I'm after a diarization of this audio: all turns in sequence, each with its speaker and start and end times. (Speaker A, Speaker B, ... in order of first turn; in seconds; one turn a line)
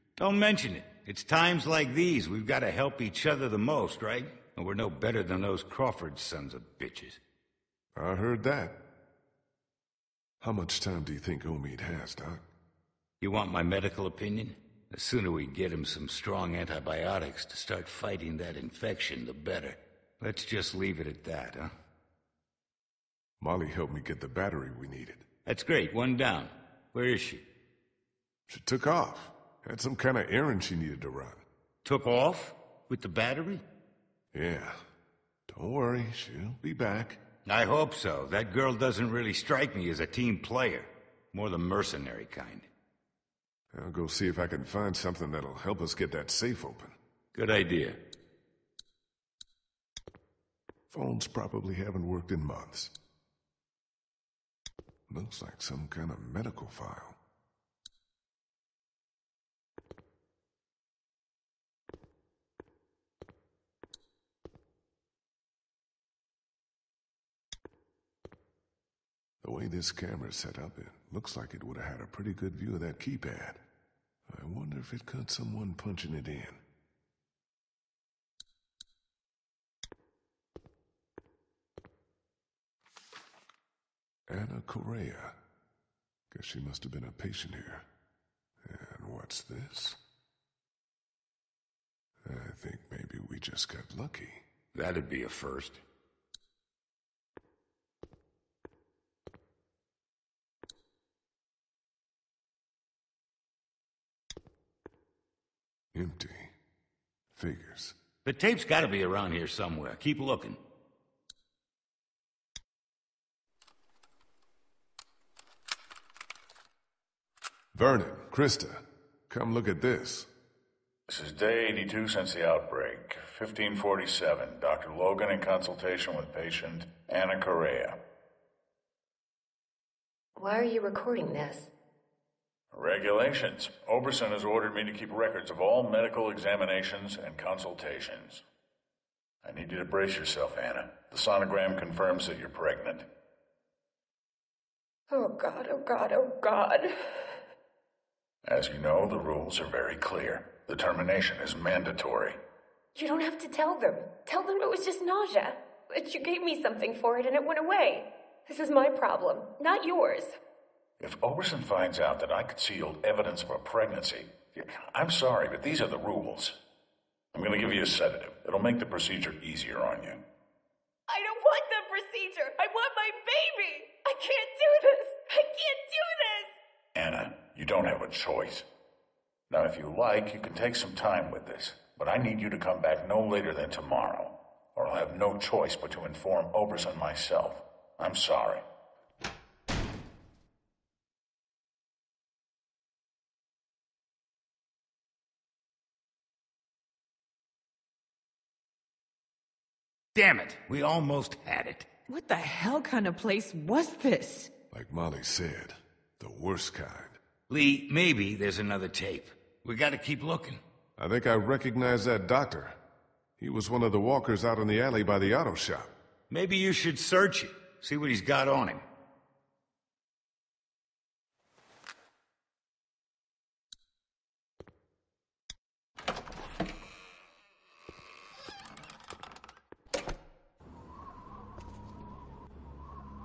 Speaker A: 0.2-7.2
Speaker B: 7.9-8.8
Speaker B: 10.4-12.4
Speaker A: 13.2-21.7
Speaker B: 23.4-25.2
Speaker A: 25.4-27.4
Speaker B: 28.5-31.4
Speaker A: 31.8-33.6
Speaker B: 34.3-34.8
Speaker B: 35.5-37.2
Speaker A: 37.5-42.7
Speaker B: 43.7-47.0
Speaker A: 47.3-48.0
Speaker B: 50.9-52.9
Speaker B: 55.1-57.2
Speaker B: 69.4-73.6
Speaker B: 74.3-76.6
Speaker B: 84.3-85.4
Speaker B: 86.3-87.8
Speaker B: 88.6-90.0
Speaker B: 92.2-94.4
Speaker A: 94.7-95.8
Speaker B: 105.9-106.5
Speaker B: 107.3-108.0
Speaker A: 108.2-110.6
Speaker B: 117.7-120.3
Speaker C: 121.1-128.0
Speaker D: 130.4-131.7
Speaker C: 132.7-138.4
Speaker C: 139.4-143.1
Speaker D: 145.1-147.4
Speaker C: 148.4-152.4
Speaker D: 152.9-160.4
Speaker C: 161.0-166.6
Speaker C: 167.3-170.2
Speaker D: 171.1-176.5
Speaker C: 176.9-178.7
Speaker C: 179.5-188.6
Speaker A: 200.1-201.9
Speaker E: 202.1-204.5
Speaker B: 204.7-207.2
Speaker A: 207.5-210.6
Speaker B: 211.0-212.8
Speaker B: 213.4-215.9
Speaker A: 216.3-218.8